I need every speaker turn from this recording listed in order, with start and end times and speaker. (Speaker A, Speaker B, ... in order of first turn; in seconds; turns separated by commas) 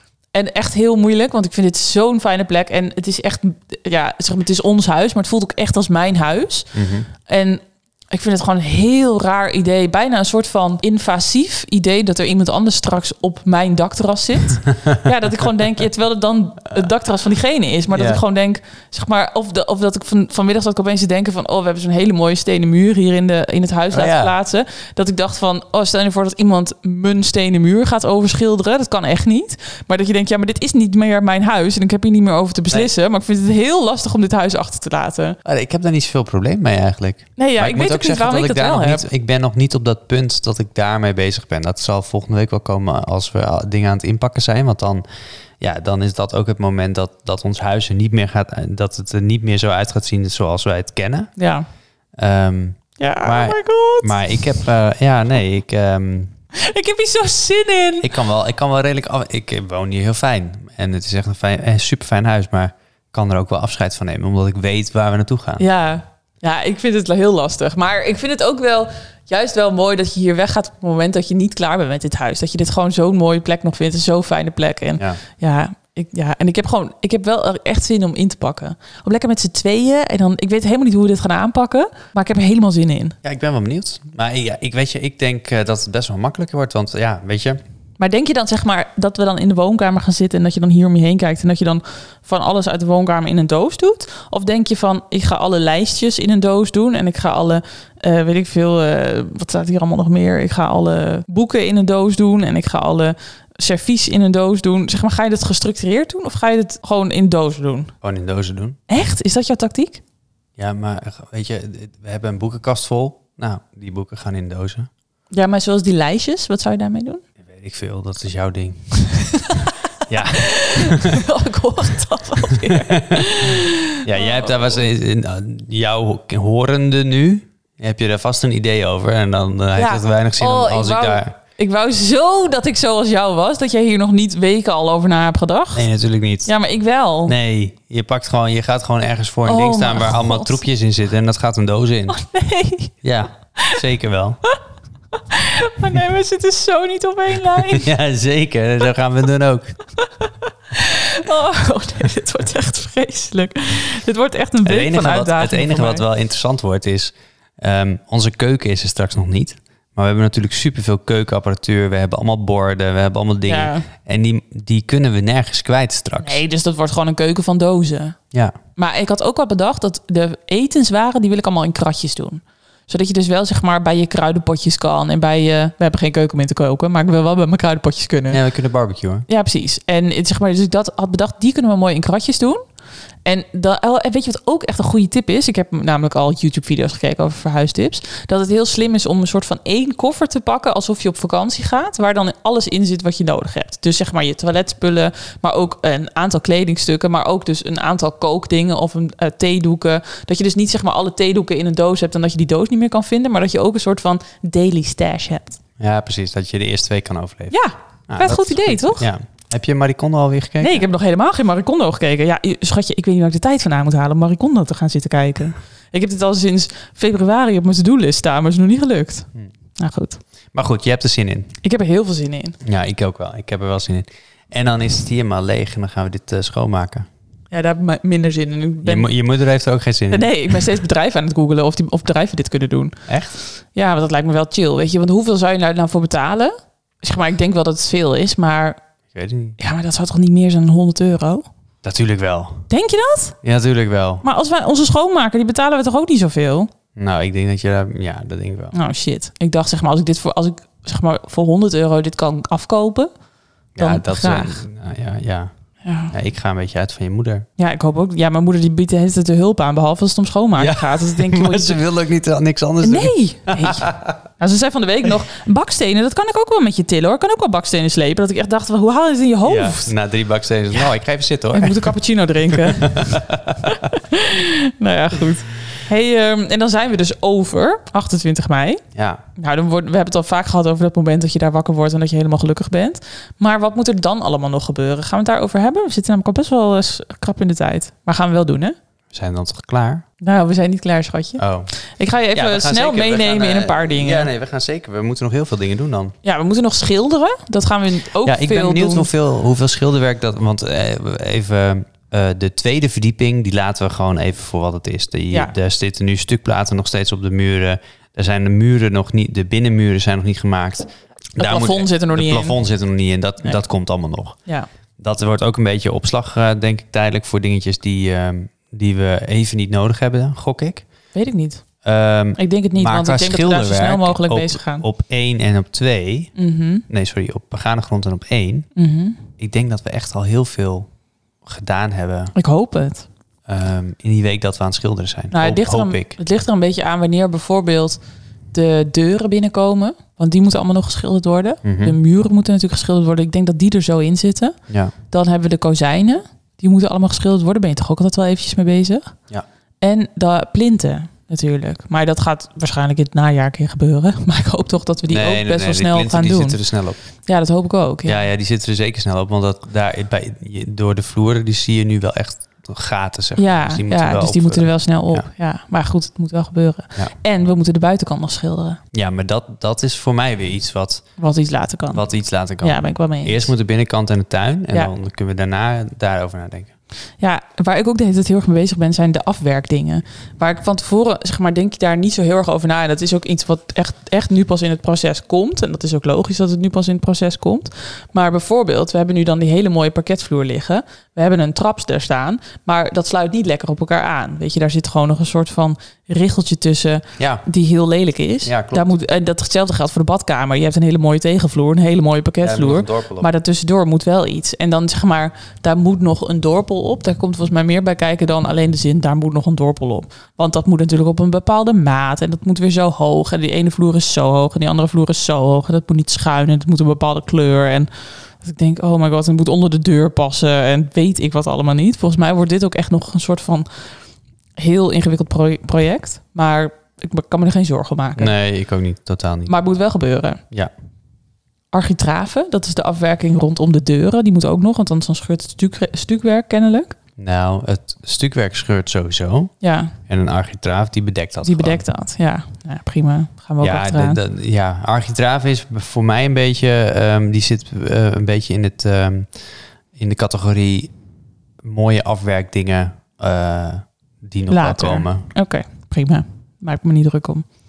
Speaker A: 0.3-35.4, Speaker B: 6.7-7.1, Speaker B: 17.9-18.2, Speaker B: 23.9-24.3, Speaker B: 35.4-45.0, Speaker A: 37.4-39.1, Speaker B: 45.6-51.3, Speaker A: 51.4-51.6, Speaker B: 52.2-56.3, Speaker A: 53.0-54.3, Speaker A: 56.5-58.1, Speaker B: 58.0-65.6, Speaker A: 65.6-83.2, Speaker B: 83.2-87.6, Speaker A: 88.0-107.9, Speaker B: 108.0-108.8, Speaker A: 108.9-110.0, Speaker B: 110.6-114.9, Speaker A: 115.3-117.2, Speaker B: 117.4-118.9, Speaker A: 119.1-119.7, Speaker B: 120.1-121.2, Speaker A: 120.3-124.5, Speaker B: 122.5-131.3, Speaker A: 129.7-135.9, Speaker B: 135.7-136.5, Speaker A: 136.4-137.3, Speaker B: 137.2-142.2, Speaker A: 139.4-140.6, Speaker A: 142.1-142.9, Speaker B: 143.0-144.4, Speaker A: 145.1-147.9, Speaker B: 147.5-149.8, Speaker A: 150.0-156.0, Speaker B: 154.6-166.4, Speaker A: 163.4-163.9, Speaker A: 166.2-168.2, Speaker A: 168.8-178.4, Speaker B: 178.3-179.2, Speaker A: 179.3-182.6, Speaker A: 183.2-205.6, Speaker B: 205.8-207.6, Speaker A: 207.5-209.1, Speaker B: 208.1-210.8, Speaker A: 210.6-220.2, Speaker B: 220.5-221.5, Speaker A: 221.6-222.6, Speaker B: 222.6-227.1, Speaker A: 227.5-229.1, Speaker B: 228.8-230.3, Speaker A: 230.1-238.8, Speaker B: 233.1-233.3, Speaker B: 239.1-239.6, Speaker A: 239.6-241.4, Speaker B: 241.8-242.7, Speaker A: 242.7-243.4, Speaker B: 243.4-244.2, Speaker A: 244.2-246.7, Speaker B: 246.9-248.7, Speaker A: 248.7-253.1, Speaker B: 253.8-255.5, Speaker A: 253.8-254.6, Speaker A: 255.8-256.1, Speaker B: 256.1-257.4, Speaker A: 257.6-261.8, Speaker B: 260.6-264.2, Speaker A: 262.8-269.9, Speaker B: 269.4-271.9, Speaker A: 271.5-278.8, Speaker B: 272.5-273.9, Speaker B: 278.9-279.2, Speaker A: 279.4-288.8, Speaker B: 289.1-290.0, Speaker A: 290.2-294.3, Speaker B: 291.4-291.7, Speaker B: 292.3-296.1, Speaker A: 296.2-299.1, Speaker B: 298.2-314.4, Speaker A: 311.4-312.6, Speaker B: 315.0-320.8, Speaker A: 321.1-321.6, Speaker B: 321.8-326.3, Speaker A: 322.4-324.9, Speaker A: 326.4-326.8, Speaker B: 326.9-328.7, Speaker A: 328.8-329.2, Speaker B: 329.4-330.9, Speaker B: 331.4-332.3, Speaker A: 332.3-333.1, Speaker B: 333.5-336.1, Speaker A: 335.3-338.0, Speaker A: 338.5-344.6, Speaker B: 341.6-342.0, Speaker A: 345.1-349.1, Speaker A: 349.8-356.6, Speaker B: 355.1-357.0, Speaker A: 357.2-358.2, Speaker B: 358.1-365.3, Speaker A: 363.4-368.8, Speaker B: 368.9-371.1, Speaker A: 371.2-372.0, Speaker B: 371.9-376.7, Speaker A: 372.6-373.5, Speaker A: 377.2-417.9, Speaker B: 397.2-397.4, Speaker B: 398.4-398.9, Speaker B: 402.4-403.3, Speaker A: 418.4-423.7, Speaker A: 424.6-428.3, Speaker B: 428.2-429.5, Speaker A: 429.5-430.4, Speaker A: 431.7-436.9, Speaker B: 437.2-439.5, Speaker A: 439.6-439.9, Speaker B: 440.1-441.8, Speaker A: 441.4-444.2, Speaker B: 443.6-449.4, Speaker B: 449.9-450.9, Speaker B: 451.6-455.3, Speaker A: 454.5-457.4